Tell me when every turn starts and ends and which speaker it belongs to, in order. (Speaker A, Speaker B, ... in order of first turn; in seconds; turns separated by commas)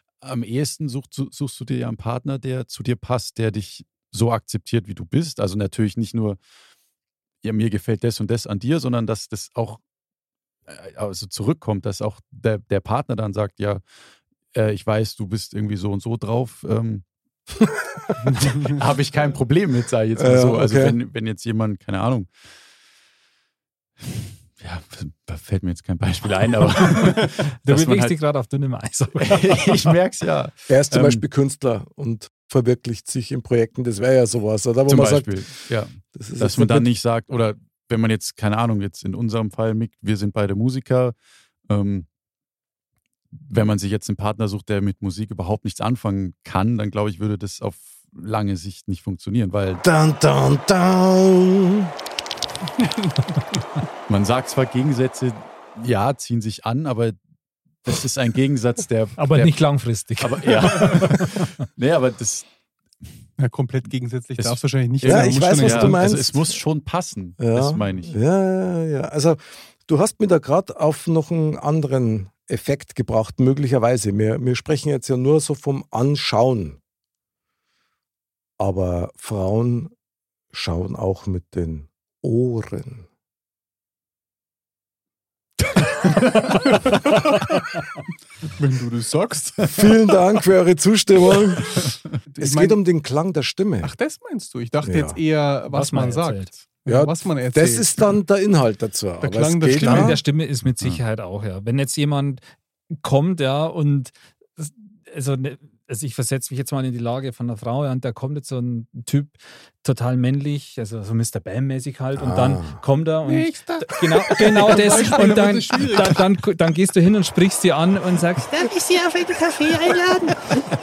Speaker A: 0.2-6.4, Speaker A: 7.4-9.8, Speaker A: 10.7-13.8, Speaker A: 14.5-17.0, Speaker A: 18.4-22.3, Speaker B: 20.1-21.0, Speaker A: 24.0-28.2, Speaker C: 27.6-29.9, Speaker A: 29.2-31.2, Speaker B: 30.7-36.9, Speaker A: 34.9-41.1, Speaker A: 41.7-42.1, Speaker A: 43.3-49.8, Speaker B: 49.8-51.9, Speaker A: 54.1-57.2, Speaker A: 57.8-62.5, Speaker C: 59.2-61.5, Speaker D: 63.4-66.0, Speaker A: 64.4-68.2, Speaker B: 65.0-66.6, Speaker B: 67.4-76.8, Speaker B: 78.6-79.9, Speaker B: 80.5-83.1, Speaker D: 88.5-89.8, Speaker B: 89.7-93.9, Speaker D: 92.3-92.8, Speaker D: 93.8-98.1, Speaker B: 94.8-95.2, Speaker C: 95.7-96.5, Speaker B: 96.8-100.2, Speaker D: 99.2-100.2, Speaker C: 99.8-102.4, Speaker C: 103.0-118.6, Speaker B: 112.2-112.8, Speaker E: 113.2-115.1, Speaker D: 114.5-116.2, Speaker E: 118.5-120.5